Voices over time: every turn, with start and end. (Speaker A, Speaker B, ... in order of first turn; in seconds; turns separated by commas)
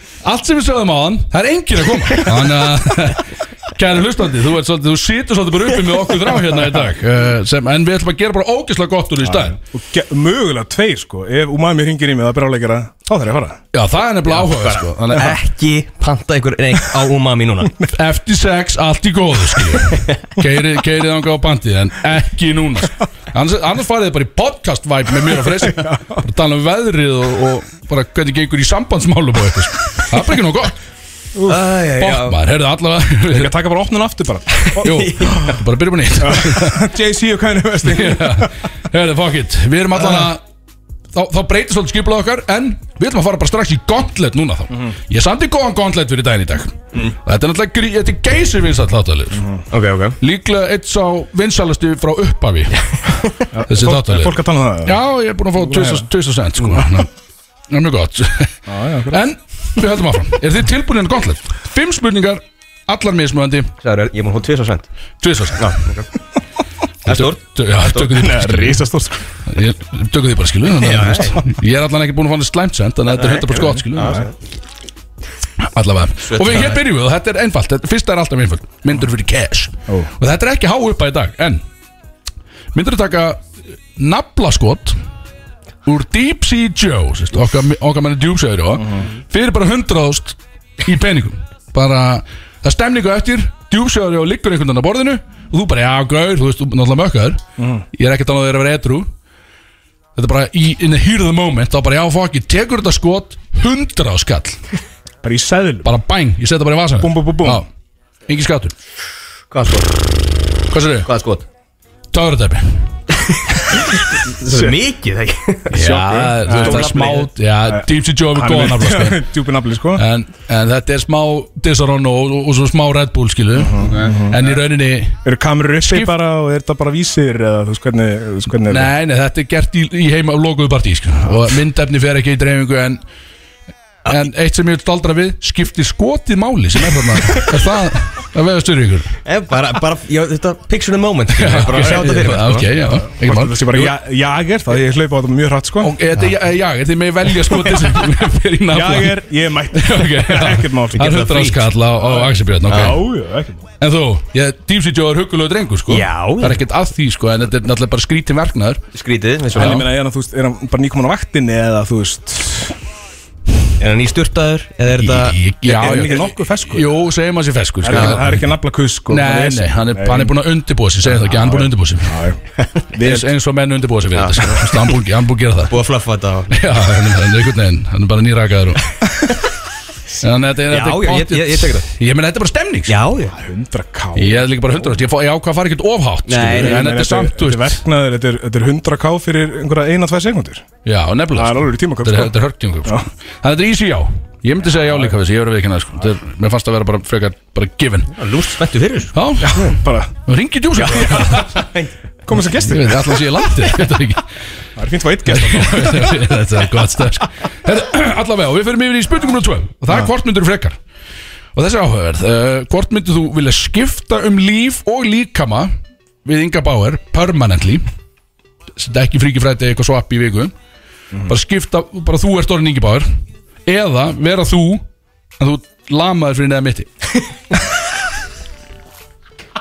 Speaker A: 0.2-9.6, Speaker B: 9.3-13.6, Speaker A: 13.7-15.4, Speaker C: 14.3-17.8, Speaker A: 17.9-30.7, Speaker B: 25.4-26.2, Speaker B: 31.4-31.6, Speaker C: 31.4-32.4, Speaker A: 32.0-33.5, Speaker B: 33.3-35.6, Speaker C: 34.5-35.5, Speaker A: 34.8-36.9, Speaker B: 36.2-38.5, Speaker A: 37.8-40.4, Speaker A: 41.1-49.5, Speaker B: 49.4-49.6, Speaker C: 49.7-50.2, Speaker A: 50.2-52.9, Speaker B: 53.5-55.0, Speaker A: 53.7-57.1, Speaker B: 55.6-56.1, Speaker A: 57.7-63.7, Speaker B: 58.7-59.2, Speaker C: 63.8-64.9, Speaker A: 65.2-65.8, Speaker C: 65.6-66.1, Speaker C: 67.1-67.4, Speaker A: 67.1-68.9, Speaker B: 68.0-69.3, Speaker A: 69.5-74.2, Speaker C: 70.8-71.4, Speaker C: 73.1-74.3, Speaker B: 73.5-74.3, Speaker A: 75.6-81.6, Speaker C: 76.2-76.8, Speaker A: 82.7-83.4, Speaker A: 84.0-85.0, Speaker A: 85.8-99.1, Speaker B: 88.8-89.0, Speaker B: 97.6-97.8, Speaker A: 100.1-104.6, Speaker B: 105.2-105.9, Speaker A: 105.8-107.7, Speaker B: 107.0-107.6, Speaker A: 108.3-108.7, Speaker C: 109.5-110.1, Speaker A: 110.7-111.1, Speaker C: 111.0-111.4, Speaker A: 112.1-112.9, Speaker C: 113.3-117.3, Speaker B: 114.5-114.8, Speaker A: 115.7-119.3, Speaker B: 115.8-120.0, Speaker A: 119.9-125.2, Speaker B: 123.5-124.4, Speaker B: 125.2-128.9, Speaker A: 125.8-126.1, Speaker A: 128.7-133.0, Speaker A: 134.1-139.1, Speaker C: 139.2-142.7, Speaker A: 141.3-143.9, Speaker B: 141.8-142.3, Speaker B: 143.0-146.0, Speaker A: 145.8-153.0, Speaker B: 148.7-151.4, Speaker C: 151.0-151.6, Speaker B: 152.0-153.7, Speaker C: 152.7-153.0, Speaker A: 153.8-158.8, Speaker C: 155.9-156.6, Speaker C: 158.9-159.8, Speaker B: 159.5-162.8, Speaker A: 159.6-159.9, Speaker C: 163.8-165.4, Speaker A: 165.0-168.5, Speaker B: 165.6-166.9, Speaker B: 167.8-170.4, Speaker C: 167.9-168.2, Speaker A: 169.1-172.2, Speaker B: 171.0-172.4, Speaker C: 172.6-173.2, Speaker B: 172.9-173.2, Speaker A: 173.0-175.7, Speaker C: 174.1-175.0, Speaker C: 175.7-176.8, Speaker A: 176.5-178.9, Speaker C: 179.1-179.4, Speaker A: 180.2-182.9, Speaker C: 180.7-181.9, Speaker C: 182.9-183.3, Speaker B: 183.3-184.9, Speaker A: 184.2-187.8, Speaker C: 186.3-186.9, Speaker B: 186.5-190.6, Speaker A: 190.8-198.2, Speaker B: 191.3-193.1, Speaker C: 198.1-199.1, Speaker A: 199.1-201.6, Speaker B: 199.4-200.1, Speaker C: 200.8-201.9, Speaker B: 202.3-203.2, Speaker A: 202.5-204.3, Speaker B: 204.8-206.2, Speaker A: 205.3-210.8, Speaker A: 211.6-215.7, Speaker A: 216.2-217.8, Speaker A: 218.8-220.5, Speaker A: 221.2-223.1, Speaker A: 223.7-224.8, Speaker A: 225.4-226.9